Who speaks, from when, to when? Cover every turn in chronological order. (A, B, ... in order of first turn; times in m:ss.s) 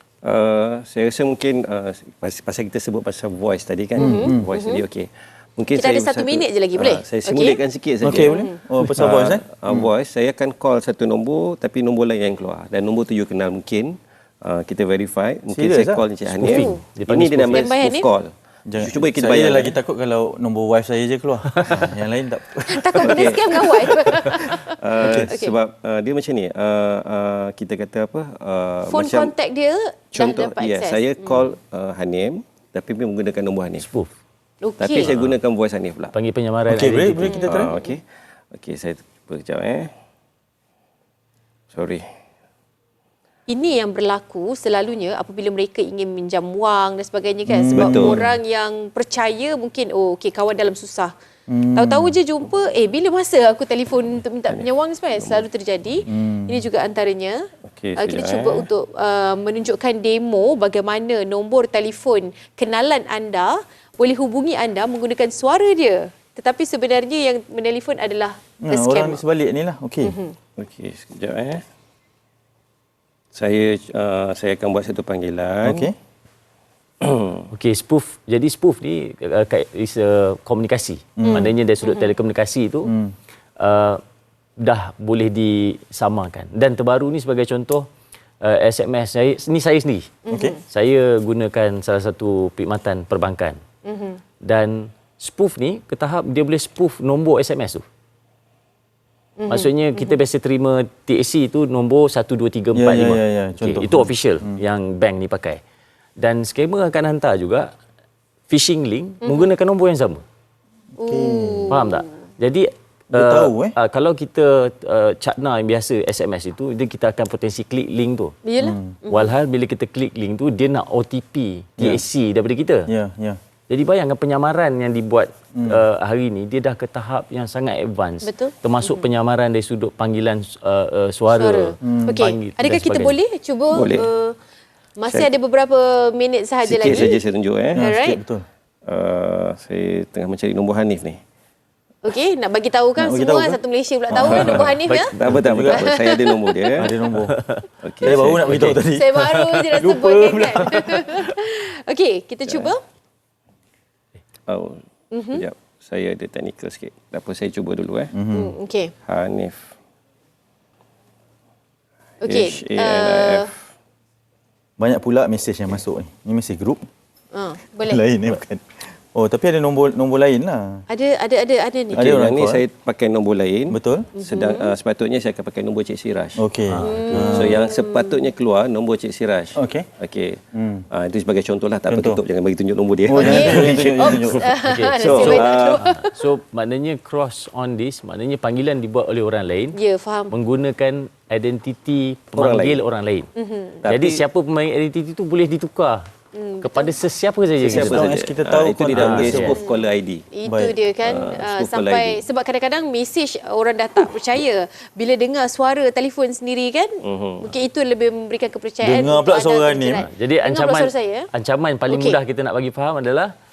0:00.2-0:08.4 A
0:04.0-0:04.8 B
0:04.0-0:04.4 C
0:05.8-0:07.6 B
0:08.0-0:09.9 C
0:08.3-0:08.6 B
0:09.0-0:19.8 A
0:15.5-0:16.0 C
0:16.3-0:17.7 D
0:16.5-0:16.8 B
0:17.5-0:18.1 B
0:18.7-0:23.3 C
0:22.6-0:25.6 B
0:23.0-0:29.3 A
0:25.0-0:25.3 C
0:28.9-0:31.4 B
0:30.1-0:33.8 A
0:33.8-0:34.1 D
0:34.6-0:35.1 B
0:34.8-0:36.2 A
0:35.1-0:35.3 D
0:36.1-0:37.5 D
0:36.7-0:37.7 C
0:37.2-0:38.0 B
0:37.5-0:38.0 A
0:38.5-0:39.9 A
0:41.7-0:42.0 A
0:43.5-0:51.1 B
0:47.5-0:48.3 C
0:47.7-0:48.2 A
0:51.5-0:52.2 C
0:51.8-0:57.4 B
0:54.5-0:55.5 A
0:56.1-0:56.7 C
0:57.7-0:58.7 A
0:58.0-1:09.2 B
1:08.6-1:10.2 C
1:10.0-1:10.4 B
1:10.6-1:11.6 A
1:13.3-1:15.9 A
1:15.6-1:16.0 C
1:17.0-1:17.4 A
1:17.5-1:22.9 D
1:21.2-1:21.5 C
1:21.2-1:22.1 B
1:22.8-1:23.2 C
1:23.6-1:24.0 D
1:24.6-1:27.9 D
1:28.4-1:30.1 D
1:30.2-1:30.6 B
1:30.3-1:30.6 C
1:30.7-1:33.6 D
1:33.8-1:34.2 B
1:34.4-1:37.8 D
1:39.4-1:40.2 B
1:39.5-1:45.6 D
1:42.7-1:44.6 C
1:46.2-1:47.7 D
1:48.5-1:50.2 D
1:49.2-1:49.5 B
1:51.0-1:52.1 B
1:51.0-1:51.8 C
1:51.7-1:58.4 D
1:53.1-1:53.8 C
1:58.4-1:59.3 B
1:58.6-1:59.0 C
1:59.1-2:02.9 D
2:01.8-2:02.0 C
2:02.9-2:03.4 C
2:03.7-2:13.2 D
2:05.6-2:05.8 C
2:08.2-2:09.1 B
2:11.3-2:14.4 B
2:11.8-2:12.2 C
2:13.7-2:14.1 A
2:15.0-2:17.2 B
2:16.6-2:17.8 A
2:16.8-2:17.1 C
2:17.8-2:18.2 B
2:17.8-2:18.4 C
2:18.9-2:21.2 A
2:22.0-2:25.1 B
2:23.0-2:23.6 C
2:24.1-2:25.9 C
2:24.2-2:26.9 A
2:24.8-2:25.2 D
2:25.7-2:26.9 B
2:26.8-2:27.4 C
2:27.2-2:27.7 D
2:27.8-2:28.8 A
2:28.0-2:31.1 C
2:28.4-2:28.8 D
2:28.9-2:32.8 B
2:34.5-2:34.8 A
2:35.1-2:35.4 B
2:35.3-2:38.1 A
2:38.1-2:38.6 C
2:38.3-2:38.9 B
2:39.1-2:39.7 A
2:42.2-2:43.5 B
2:42.2-2:43.5 A
2:44.8-2:46.8 C
2:47.3-2:48.0 B
2:47.8-2:50.8 C
2:50.9-2:52.0 B
2:51.9-2:52.6 C
2:51.9-2:56.4 A
2:53.7-2:54.1 C
2:54.1-2:54.7 B
2:56.4-2:57.6 C
2:56.7-2:57.3 D
2:56.8-2:58.3 B
2:57.1-3:00.4 A
2:59.6-2:59.9 C
3:00.5-3:00.9 C
3:00.9-3:04.4 A
3:01.9-3:02.2 C
3:03.1-3:04.4 C
3:03.1-3:06.2 B
3:04.6-3:09.8 D
3:05.0-3:05.6 A
3:05.2-3:05.8 C
3:09.8-3:10.3 B
3:10.3-3:13.3 D
3:12.4-3:12.8 A
3:13.4-3:13.8 B
3:13.8-3:14.2 A
3:13.9-3:16.0 D
3:16.3-3:16.9 B
3:16.6-3:18.1 D
3:17.6-3:20.3 A
3:17.6-3:19.6 C
3:18.9-3:19.6 D
3:19.5-3:31.3 B
3:20.4-3:20.8 C
3:21.0-3:22.2 A
3:27.0-3:27.5 A
3:28.8-3:30.0 C
3:30.0-3:33.3 D
3:31.9-3:32.2 B